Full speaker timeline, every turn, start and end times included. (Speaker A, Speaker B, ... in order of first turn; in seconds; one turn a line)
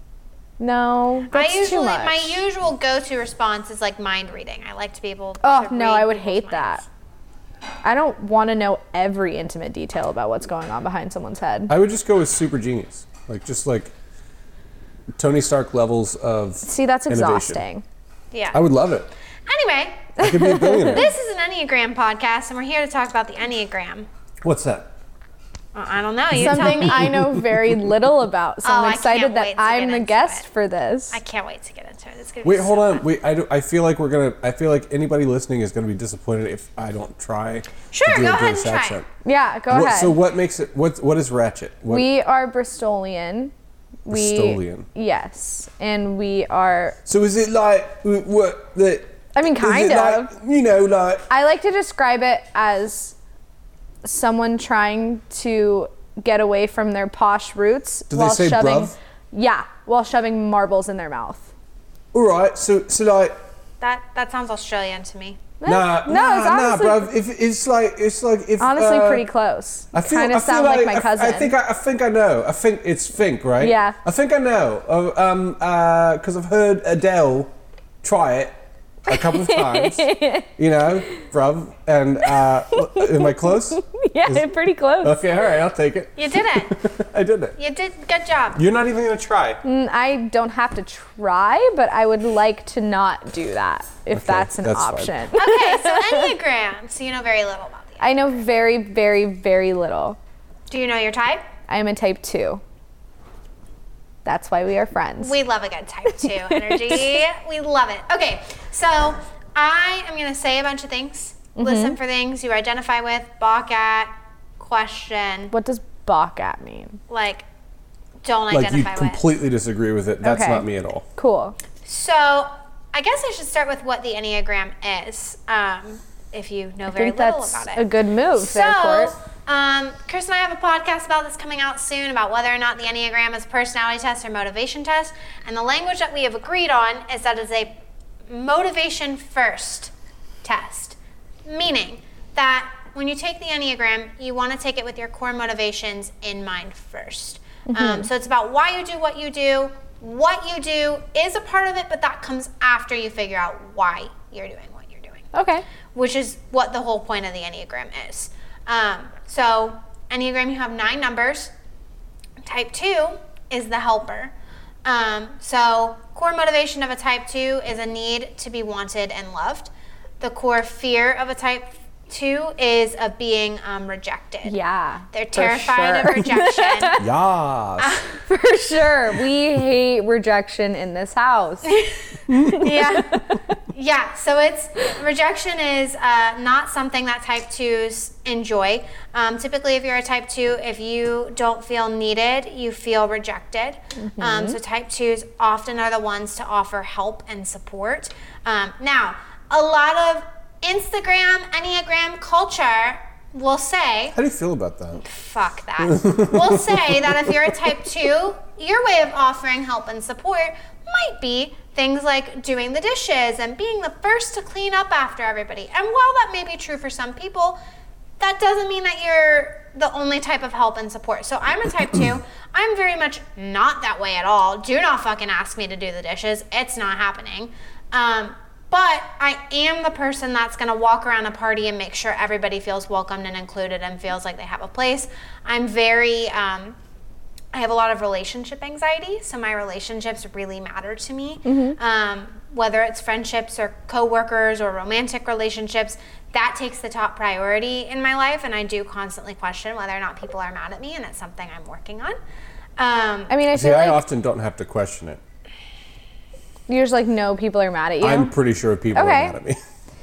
Speaker A: 0.6-2.4
Speaker B: 1.3-6.8
Speaker A: 5.4-6.8
Speaker A: 7.8-11.7
Speaker C: 11.7-13.9
Speaker C: 15.2-17.6
Speaker A: 16.6-17.8
Speaker B: 18.3-18.6
Speaker C: 18.5-19.1
Speaker B: 19.5-20.1
Speaker A: 20.2-21.0
Speaker C: 20.2-21.1
Speaker B: 20.8-24.1
Speaker C: 24.4-24.9
Speaker B: 25.7-27.2
Speaker C: 26.3-27.9
Speaker A: 26.4-31.2
Speaker B: 28.6-30.4
Speaker B: 31.1-33.0
Speaker C: 32.4-39.1
Speaker B: 37.9-39.0
Speaker A: 39.2-40.2
Speaker C: 39.7-42.1
Speaker A: 41.9-43.5
Speaker A: 44.1-47.0
Speaker C: 44.1-44.9
Speaker C: 47.0-51.3
Speaker A: 49.3-50.3
Speaker A: 51.3-53.2
Speaker A: 54.0-61.5
Speaker C: 58.1-58.9
Speaker C: 62.1-63.4
Speaker B: 63.8-65.4
Speaker A: 65.6-67.1
Speaker C: 65.7-69.3
Speaker A: 68.6-71.5
Speaker C: 69.9-77.5
Speaker A: 73.6-74.0
Speaker C: 78.0-84.5
Speaker A: 79.1-80.5
Speaker A: 82.7-85.2
Speaker C: 85.0-87.6
Speaker B: 86.2-86.7
Speaker B: 87.6-88.6
Speaker C: 88.5-89.6
Speaker A: 89.6-96.3
Speaker C: 94.1-95.1
Speaker B: 95.3-98.0
Speaker A: 98.0-100.2
Speaker B: 100.7-101.4
Speaker A: 101.7-102.6
Speaker A: 104.2-105.3
Speaker B: 105.2-115.5
Speaker A: 106.1-107.2
Speaker A: 111.6-112.0
Speaker A: 115.5-117.0
Speaker B: 117.1-117.5
Speaker B: 118.2-119.2
Speaker C: 118.5-121.0
Speaker A: 120.2-121.6
Speaker B: 121.8-127.8
Speaker A: 126.9-129.1
Speaker B: 128.4-137.7
Speaker B: 138.3-139.9
Speaker B: 140.4-155.3
Speaker A: 147.7-148.1
Speaker A: 155.3-155.7
Speaker B: 155.9-161.5
Speaker B: 162.4-164.3
Speaker B: 164.8-174.6
Speaker A: 174.4-177.0
Speaker B: 175.1-177.0
Speaker C: 177.0-178.0
Speaker B: 177.8-178.1
Speaker A: 178.2-183.2
Speaker B: 182.6-183.2
Speaker B: 183.7-204.2
Speaker A: 194.1-194.6
Speaker C: 204.1-205.1
Speaker B: 205.1-217.6
Speaker C: 205.8-207.3
Speaker B: 218.2-236.8
Speaker B: 237.5-252.2
Speaker A: 241.5-241.8
Speaker B: 252.8-253.3
Speaker A: 253.3-254.0
Speaker C: 253.5-255.2
Speaker A: 256.7-258.3
Speaker C: 258.0-259.6
Speaker A: 258.9-259.4